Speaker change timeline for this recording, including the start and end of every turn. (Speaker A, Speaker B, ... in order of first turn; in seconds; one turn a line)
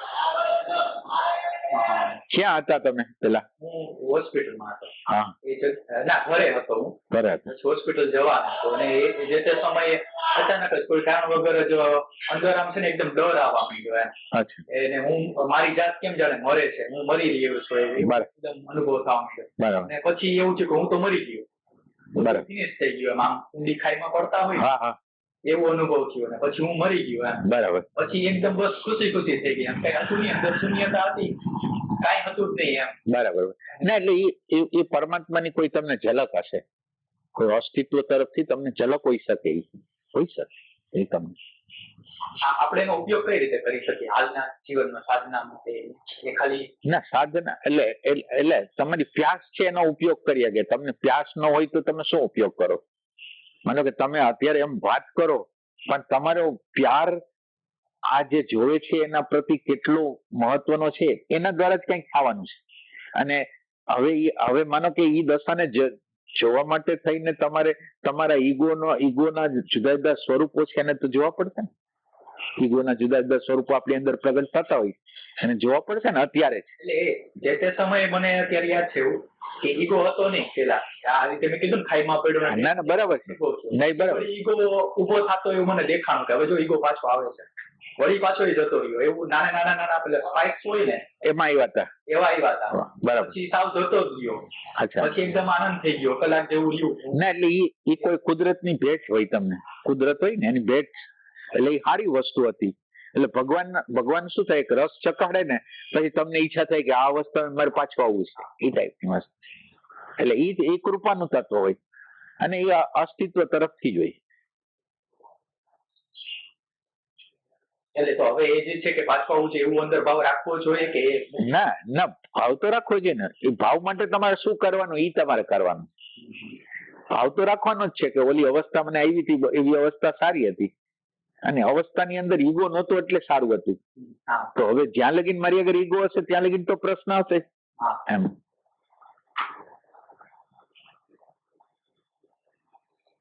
Speaker A: 0.4-0.8
Speaker A: 1.7-2.2
Speaker B: 2.3-3.5
Speaker A: 3.6-4.9
Speaker B: 5.1-5.3
Speaker A: 5.4-14.1
Speaker B: 7.1-7.5
Speaker B: 14.3-14.6
Speaker A: 14.7-21.5
Speaker B: 18.0-18.3
Speaker B: 19.6-19.9
Speaker A: 22.1-24.7
Speaker B: 22.2-22.4
Speaker B: 24.6-25.0
Speaker A: 25.4-33.0
Speaker B: 27.5-27.9
Speaker B: 33.1-36.6
Speaker B: 37.4-41.4
Speaker A: 42.4-46.7
Speaker B: 46.9-52.8
Speaker B: 53.7-57.2
Speaker B: 58.1-62.6
Speaker B: 63.2-71.7
Speaker B: 72.6-76.7
Speaker A: 76.8-87.5
Speaker B: 82.5-84.3
Speaker A: 88.0-91.1
Speaker B: 91.2-91.9
Speaker A: 92.1-94.5
Speaker B: 92.8-93.4
Speaker B: 94.8-95.2
Speaker A: 95.0-97.2
Speaker B: 97.2-109.5
Speaker B: 110.2-111.8
Speaker B: 112.4-114.2
Speaker A: 118.0-121.5
Speaker B: 121.4-125.9
Speaker B: 127.1-130.7
Speaker B: 131.4-133.8
Speaker A: 134.3-134.5
Speaker B: 134.6-137.5
Speaker B: 138.1-138.3